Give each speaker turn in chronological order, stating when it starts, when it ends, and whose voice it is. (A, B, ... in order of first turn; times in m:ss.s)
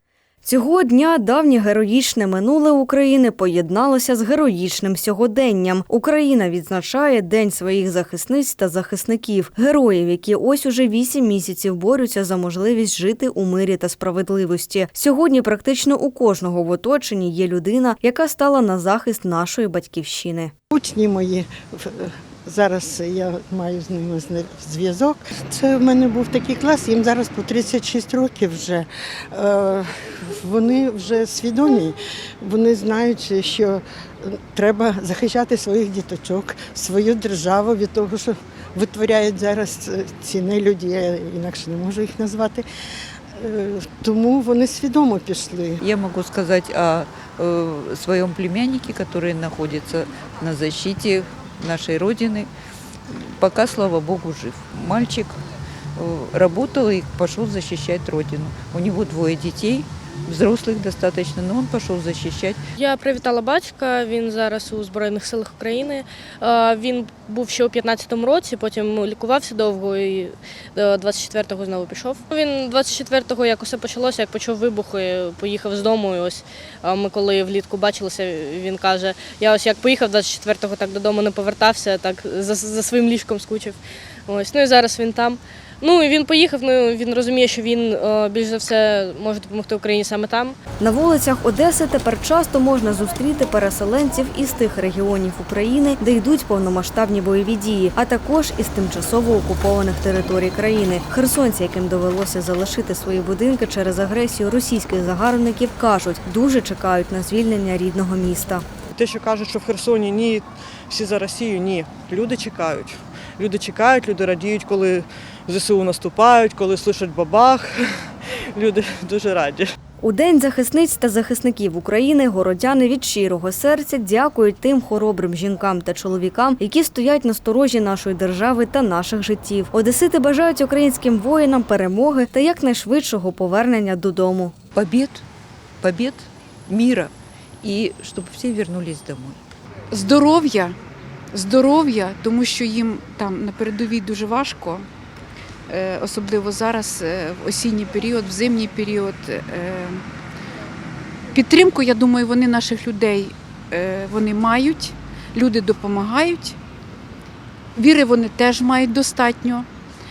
0:00.4-0:20.5 A
0:20.7-0:42.6 B
0:43.4-0:45.8 B
0:45.8-0:52.5 C
0:53.1-0:55.4 C
0:56.0-1:02.6 C
1:02.8-1:30.6 D
1:30.8-1:48.6 A
1:48.9-1:59.7 E
2:00.0-2:14.5 A
2:14.7-2:15.2 C
2:15.8-2:19.4 C
2:19.9-2:20.8 F
2:21.3-2:24.9 F
2:25.7-2:30.0 F
2:31.3-2:36.6 F
2:37.8-2:39.7 F